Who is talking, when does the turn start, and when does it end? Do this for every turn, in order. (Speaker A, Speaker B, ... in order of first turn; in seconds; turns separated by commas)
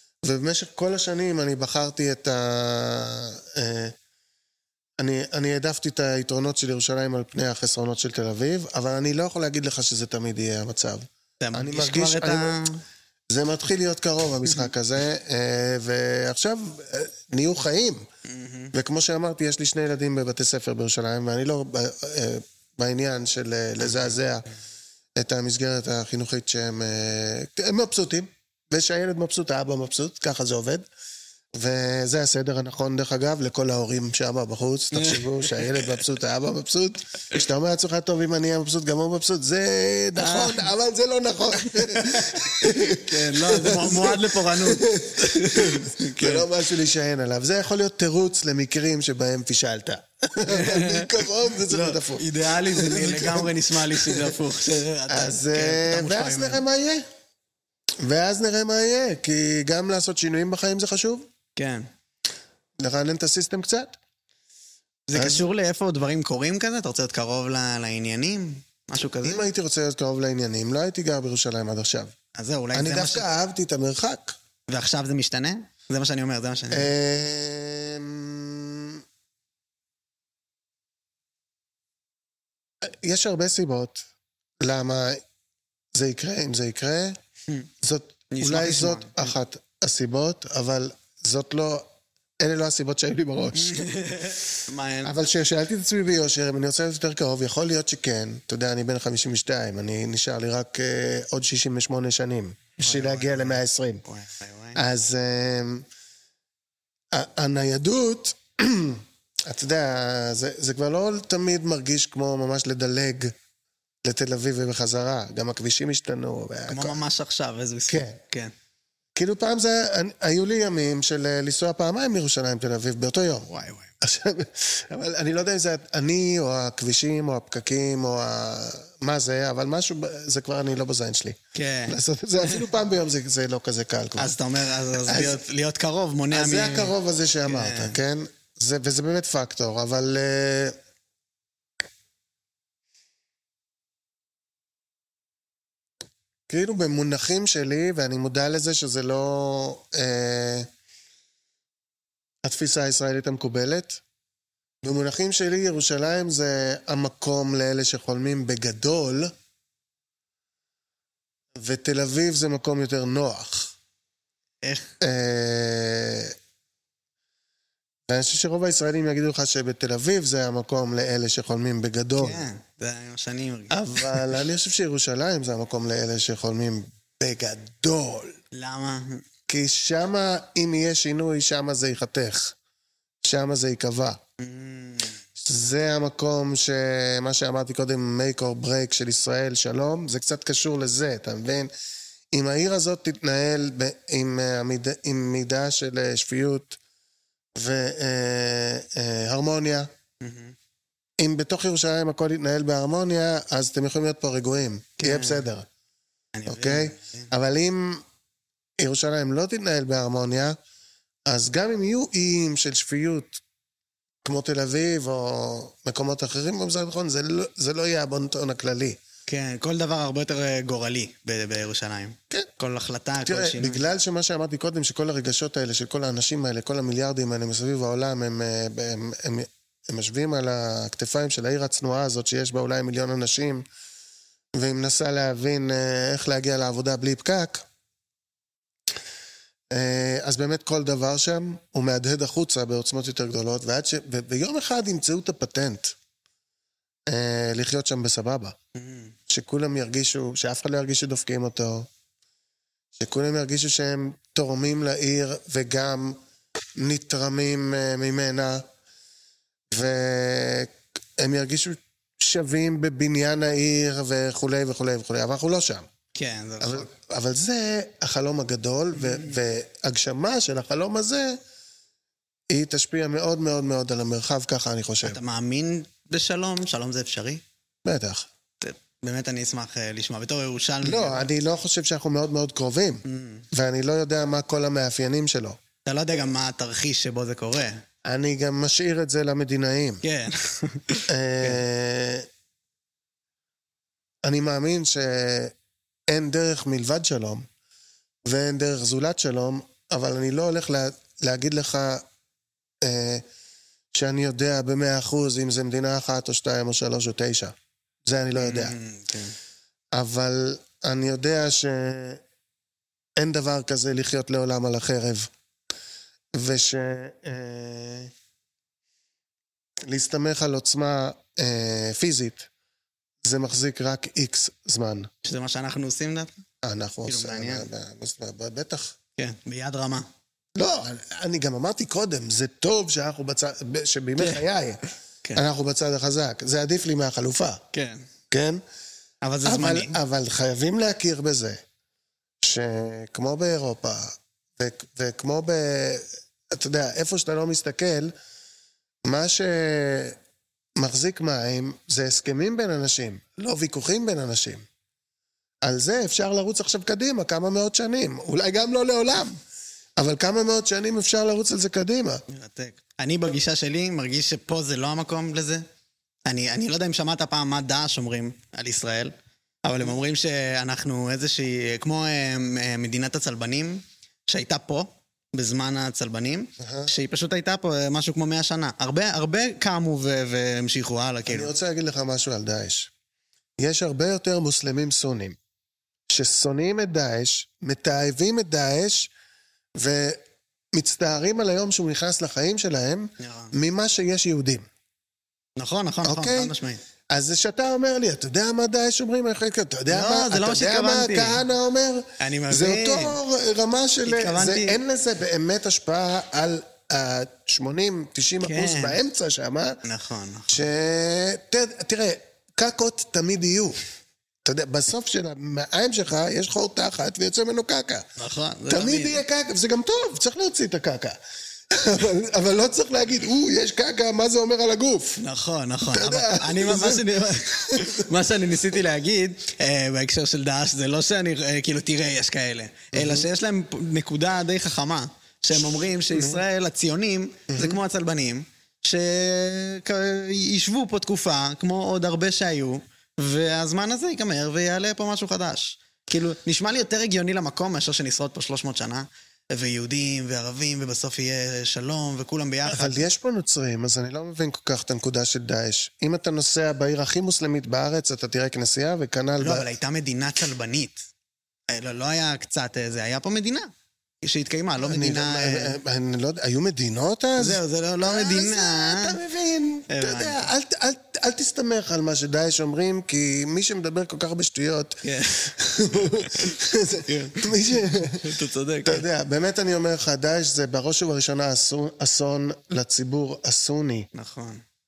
Speaker A: 0.2-3.9, Speaker A: 5.0-12.6, Speaker B: 11.4-12.8, Speaker A: 13.3-18.0, Speaker B: 18.2-18.7, Speaker A: 18.7-24.5, Speaker B: 23.8-24.2, Speaker A: 25.2-30.8, Speaker A: 31.6-54.4, Speaker B: 34.9-36.0, Speaker B: 40.2-40.7, Speaker B: 41.6-46.5, Speaker B: 50.5-56.6, Speaker A: 55.1-57.0, Speaker A: 58.0-61.3, Speaker B: 61.6-61.9, Speaker A: 62.8-64.0, Speaker B: 65.1-69.5, Speaker A: 65.2-65.5, Speaker A: 69.2-72.1, Speaker B: 72.3-73.3, Speaker A: 72.7-74.4, Speaker B: 74.7-76.9, Speaker A: 76.7-79.0, Speaker A: 82.8-84.0, Speaker A: 84.6-85.2, Speaker A: 86.0-87.2, Speaker A: 87.8-91.9, Speaker B: 88.3-89.3, Speaker A: 92.4-93.8, Speaker B: 93.5-95.2, Speaker A: 95.0-104.0, Speaker B: 102.8-104.8, Speaker A: 104.8-105.9, Speaker A: 107.1-113.3, Speaker A: 114.0-117.0, Speaker B: 116.7-118.5, Speaker A: 117.9-118.2, Speaker A: 119.2-123.5, Speaker B: 123.5-123.9, Speaker A: 124.0-131.4, Speaker B: 131.5-132.0, Speaker A: 131.9-134.4, Speaker B: 134.2-136.9, Speaker A: 135.0-135.4, Speaker A: 136.3-140.8, Speaker B: 137.5-138.0, Speaker A: 146.5-150.7, Speaker A: 152.4-154.0, Speaker A: 154.8-159.3, Speaker A: 161.6-163.7, Speaker B: 164.6-164.9, Speaker A: 165.0-166.3, Speaker A: 168.1-172.4, Speaker B: 172.2-174.3, Speaker A: 173.7-178.4, Speaker B: 178.5-179.2, Speaker A: 179.5-182.6, Speaker A: 183.2-184.2, Speaker B: 184.4-185.2, Speaker A: 185.4-191.7, Speaker A: 192.3-196.8, Speaker A: 197.6-199.9, Speaker B: 200.2-200.6, Speaker A: 201.2-205.7, Speaker B: 205.0-205.5, Speaker B: 206.3-207.3, Speaker A: 206.5-208.0, Speaker A: 208.8-210.6, Speaker A: 211.3-213.4, Speaker A: 214.2-219.0, Speaker B: 219.3-223.8, Speaker A: 223.2-233.6, Speaker A: 234.6-237.7, Speaker A: 239.7-245.9, Speaker A: 247.1-248.6, Speaker B: 248.8-249.1, Speaker A: 249.3-251.9, Speaker A: 253.0-256.2, Speaker A: 256.8-258.6, Speaker A: 259.7-265.9, Speaker B: 266.1-266.9, Speaker A: 266.6-271.4, Speaker B: 268.9-269.4, Speaker A: 272.5-275.2, Speaker B: 275.0-277.4, Speaker A: 277.9-278.3, Speaker B: 278.6-281.3, Speaker A: 280.8-285.6, Speaker B: 283.1-283.4, Speaker B: 285.9-287.8, Speaker A: 288.1-290.0, Speaker B: 290.0-291.6, Speaker A: 291.1-292.3, Speaker A: 294.2-295.5, Speaker A: 296.1-297.5, Speaker A: 298.3-302.0, Speaker A: 302.8-303.2, Speaker A: 303.9-307.5, Speaker A: 308.1-308.8, Speaker B: 308.4-309.4, Speaker A: 309.9-312.2, Speaker A: 313.2-315.3, Speaker A: 316.4-318.1, Speaker A: 319.8-322.5, Speaker A: 323.2-325.1, Speaker B: 325.2-326.3, Speaker A: 326.6-329.0, Speaker B: 327.1-327.7, Speaker B: 329.2-330.1, Speaker A: 330.6-334.8, Speaker A: 335.4-337.6, Speaker B: 337.7-338.1, Speaker A: 338.3-338.6, Speaker B: 339.2-340.0, Speaker A: 339.4-341.6, Speaker A: 342.4-348.1, Speaker A: 349.1-350.2, Speaker A: 350.8-354.6, Speaker A: 355.6-359.4, Speaker A: 360.0-362.2, Speaker B: 362.3-365.6, Speaker B: 366.3-369.1, Speaker B: 369.6-381.5, Speaker A: 376.6-376.9, Speaker A: 381.3-382.9, Speaker A: 383.6-385.4, Speaker A: 386.1-389.1, Speaker A: 389.8-390.2, Speaker A: 390.7-394.7, Speaker B: 393.2-393.5, Speaker B: 395.6-396.8, Speaker A: 396.1-396.5, Speaker A: 397.1-409.8, Speaker B: 399.9-401.4, Speaker B: 402.2-403.2, Speaker B: 404.0-404.8, Speaker B: 408.4-409.0, Speaker B: 409.8-410.6, Speaker A: 410.5-413.8, Speaker A: 414.4-418.1, Speaker B: 418.2-419.2, Speaker A: 418.7-421.2, Speaker A: 421.7-425.2, Speaker B: 425.2-453.0, Speaker A: 425.9-428.1, Speaker A: 432.9-433.3, Speaker A: 436.1-436.4, Speaker A: 437.5-437.8, Speaker A: 452.7-459.7, Speaker B: 459.4-461.1, Speaker B: 461.7-463.7, Speaker B: 464.2-465.8, Speaker A: 464.8-484.1, Speaker B: 467.4-469.2, Speaker B: 469.9-470.5, Speaker B: 475.0-479.1, Speaker B: 484.1-484.6